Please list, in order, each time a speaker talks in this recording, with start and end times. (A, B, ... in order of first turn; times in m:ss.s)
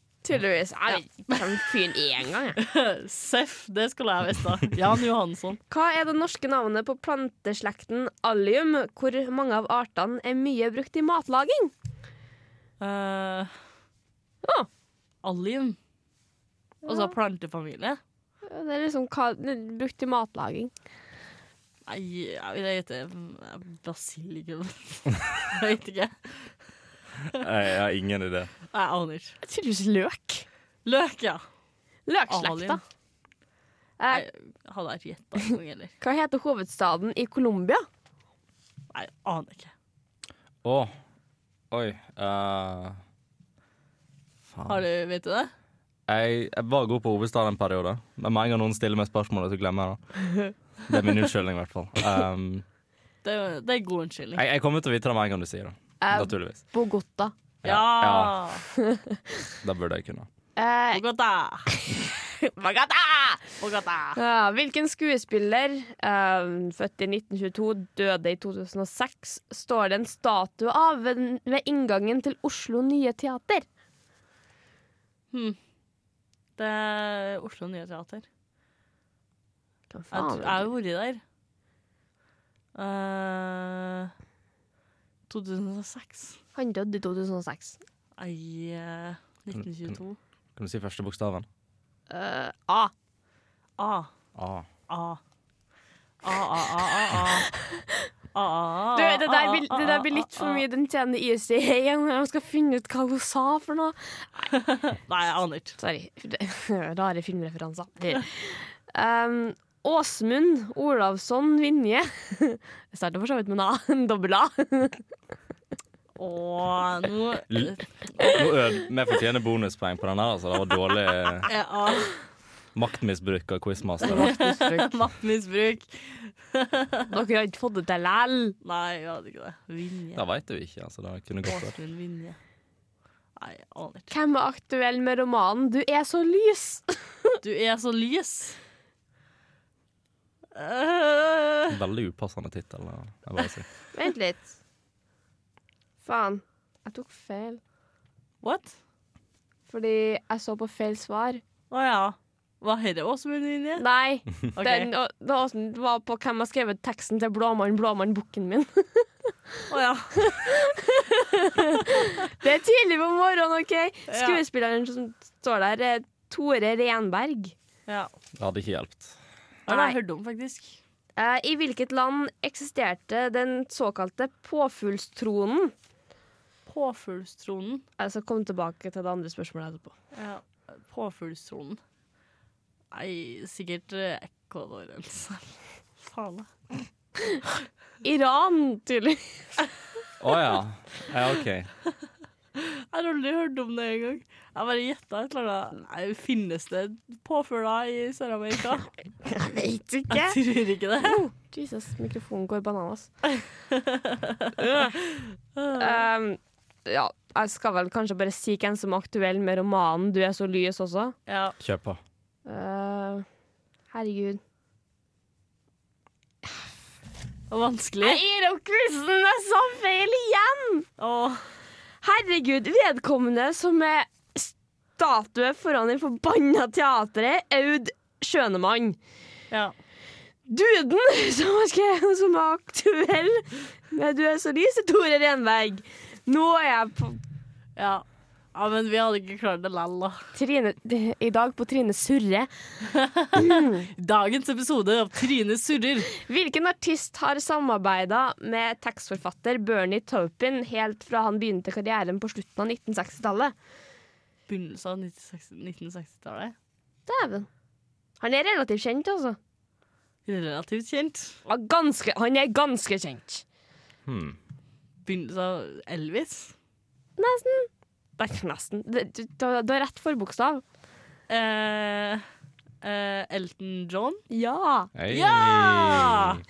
0:00.2-0:02.6 A
0:00.9-0:01.4 B
0:02.6-0:05.6 B
0:05.7-0:11.7 A
0:12.8-0:13.5 B
0:15.2-0:15.8 B
0:16.9-0:17.1 A
0:16.9-0:18.0 B
0:18.5-0:20.7 A
0:21.9-0:26.5 B
0:27.3-0:28.5 C
0:28.7-0:29.4 B
0:29.4-0:30.5 A
0:30.8-0:31.4 B
0:32.1-0:32.8 A
0:32.3-0:32.8 B
0:34.0-0:34.3 A
0:34.1-0:35.9 B
0:36.0-0:37.9 A
0:38.9-0:39.7 B
0:40.6-0:40.9 C
0:41.7-0:43.0 C
0:44.5-0:44.8 C
0:44.7-0:45.5 B
0:46.1-0:50.0 C
0:50.9-0:52.6 C
0:53.2-0:54.4 B
0:54.4-0:56.6 C
0:56.0-0:57.3 A
0:57.6-0:58.4 C
0:57.6-0:58.6 B
0:58.8-0:59.2 A
0:59.6-1:00.3 C
1:00.6-1:01.0 A
1:00.9-1:01.7 B
1:01.7-1:03.4 A
1:03.6-1:04.2 B
1:04.2-1:13.7 A
1:15.3-1:15.6 B
1:16.6-1:18.3 B
1:19.9-1:20.7 A
1:20.1-1:21.2 B
1:22.8-1:24.1 B
1:25.3-1:26.4 B
1:26.6-1:27.8 A
1:28.2-1:30.2 B
1:29.6-1:30.0 C
1:30.6-1:31.5 C
1:32.1-1:32.9 A
1:33.8-1:34.1 B
1:34.4-1:34.7 C
1:34.9-1:35.2 B
1:36.2-1:37.5 B
1:37.1-1:38.1 A
1:38.3-1:40.6 B
1:39.0-1:44.5 A
1:44.5-1:45.8 B
1:45.8-1:55.0 A
1:56.2-1:58.4 B
1:57.5-2:01.5 C
2:01.5-2:02.2 B
2:02.8-2:04.3 C
2:04.0-2:04.9 A
2:04.0-2:07.1 B
2:07.1-2:08.6 A
2:08.6-2:10.2 B
2:10.2-2:11.8 C
2:11.4-2:12.4 B
2:13.4-2:14.1 B
2:14.1-2:17.4 A
2:17.4-2:18.6 B
2:20.6-2:21.7 B
2:21.7-2:23.7 C
2:23.9-2:24.5 A
2:26.0-2:27.6 A
2:28.4-2:28.8 B
2:29.7-2:31.4 A
2:31.7-2:33.8 B
2:33.8-2:39.3 A
2:34.5-2:34.9 B
2:39.7-2:40.2 B
2:40.2-2:47.6 A
2:44.1-2:44.4 B
2:48.4-2:49.1 C
2:49.7-2:50.8 B
2:49.7-2:50.0 A
2:51.2-2:55.7 A
2:56.7-2:57.8 B
2:58.0-2:59.9 A
3:00.1-3:01.8 B
3:02.9-3:06.5 B
3:08.0-3:09.4 A
3:10.2-3:11.7 C
3:12.6-3:18.9 B
3:19.2-3:20.4 A
3:20.1-3:21.2 B
3:21.0-3:23.1 A
3:23.4-3:24.5 B
3:24.6-3:25.0 A
3:25.2-3:26.0 B
3:25.8-3:31.2 A
3:31.3-3:31.6 B
3:31.6-3:32.0 C
3:32.5-3:33.2 A
3:33.9-3:34.4 A
3:37.5-3:38.2 B
3:38.0-3:40.9 A
3:41.0-3:41.4 B
3:42.0-3:49.0 A
3:50.5-3:57.2 A
3:57.8-4:00.2 B
4:00.4-4:02.5 A
4:02.9-4:06.1 B
4:03.4-4:03.9 A
4:06.1-4:13.5 A
4:14.5-4:16.6 B
4:17.1-4:17.5 A
4:18.2-4:19.4 A
4:20.3-4:21.4 B
4:21.5-4:23.4 A
4:24.1-4:24.4 C
4:25.0-4:26.5 B
4:27.2-4:30.6 A
4:31.3-4:32.2 B
4:32.8-4:34.2 B
4:34.3-4:34.9 A
4:35.0-4:36.4 C
4:35.1-4:36.4 B